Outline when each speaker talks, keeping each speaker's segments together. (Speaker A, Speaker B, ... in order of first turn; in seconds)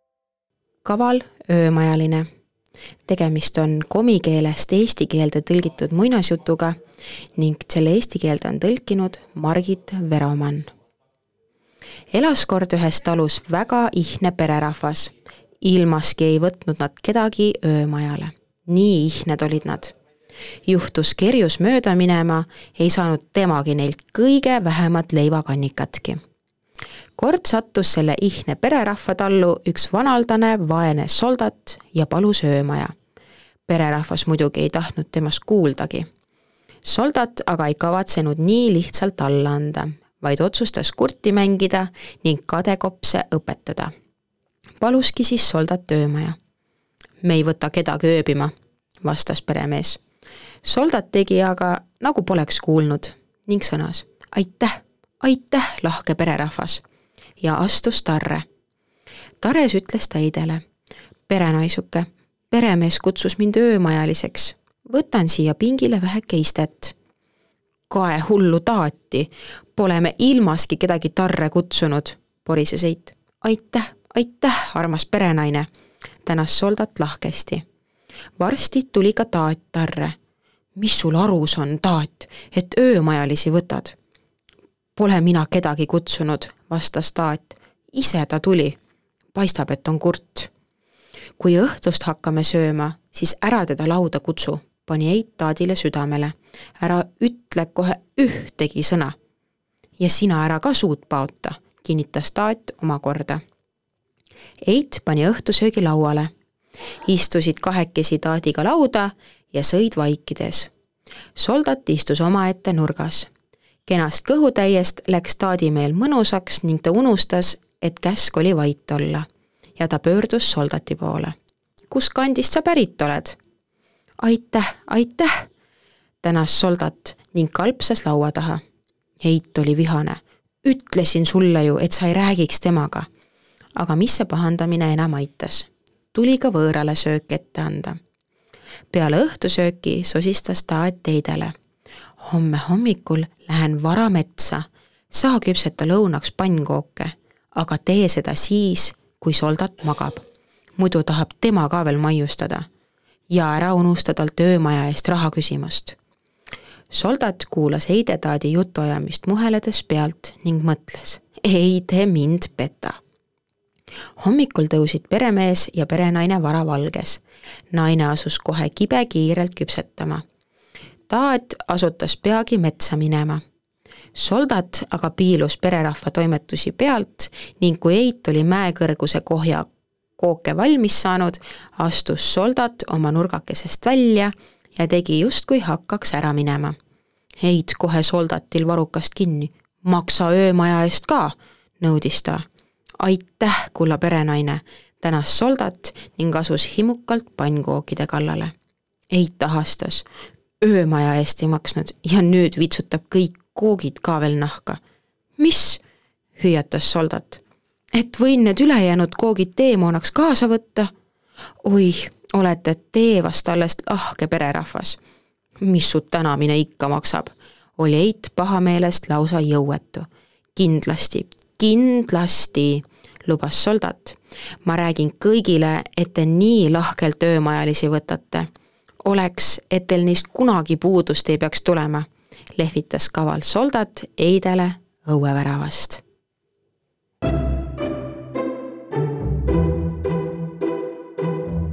Speaker A: 0.8-2.3, 3.1-6.8, 7.4-10.7, 12.1-19.9, 20.7-26.2, 27.2-32.9, 33.7-36.1, 36.9-43.9, 44.8-46.4, 47.2-50.0, 50.6-56.8, 57.4-58.5, 59.4-60.6, 61.3-67.0, 67.9-75.7, 76.2-77.7, 78.4-80.2, 80.8-84.0, 85.0-88.8, 89.3-90.5, 91.4-99.2, 100.0-103.4, 104.7-106.3, 107.0-110.7, 111.4-113.3, 113.9-119.3, 119.8-121.3, 121.9-123.4, 124.2-125.5, 126.2-128.6, 129.2-133.1, 133.8-138.0, 138.9-141.6, 142.2-150.2, 150.8-152.7, 153.3-156.0, 156.9-163.0, 164.2-170.2, 171.1-173.4, 174.2-186.8, 187.4-192.5, 193.0-198.5, 199.1-200.1, 200.6-204.8, 205.4-205.8, 206.4-207.4, 207.9-210.9, 211.6-215.0, 215.6-228.5, 229.0-236.0